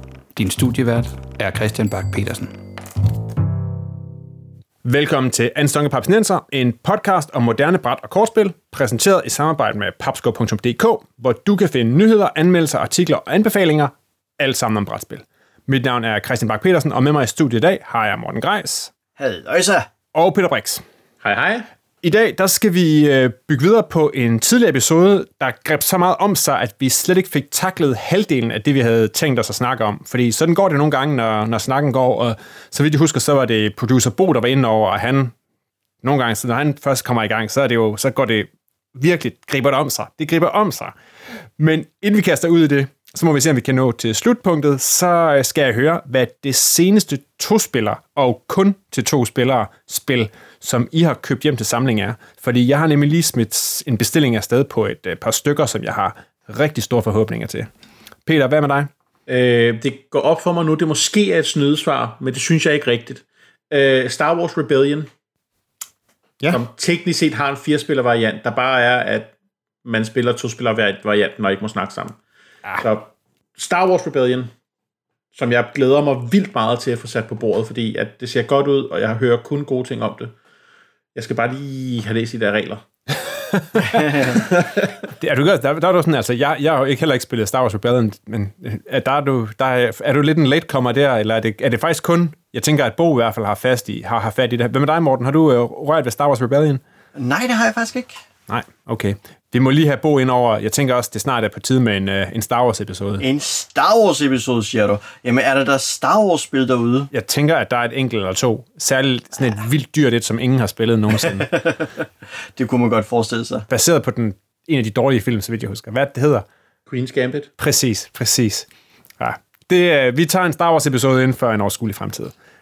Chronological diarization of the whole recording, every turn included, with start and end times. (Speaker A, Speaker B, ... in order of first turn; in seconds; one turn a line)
Speaker A: 0.3-2.5
Speaker B: 4.8-18.9
Speaker C: 19.2-19.9
Speaker B: 20.1-20.8
Speaker D: 21.2-21.7
Speaker B: 22.0-35.3
Speaker B: 36.0-40.9
Speaker B: 41.6-57.7
Speaker B: 58.3-58.9
Speaker D: 59.3-65.1
Speaker D: 66.5-69.3
Speaker D: 69.8-72.2
Speaker D: 72.8-74.5
Speaker D: 75.3-80.3
Speaker D: 81.2-82.8
Speaker B: 83.5-84.4
Speaker D: 84.4-84.6
Speaker B: 85.2-96.8
Speaker C: 97.2-98.1
Speaker B: 98.5-103.2
Speaker C: 103.2-107.1
Speaker B: 107.1-111.5
Speaker C: 111.2-113.7
Speaker B: 113.7-116.5
Speaker D: 116.9-117.5
Speaker B: 117.6-118.7
Speaker B: 119.2-122.3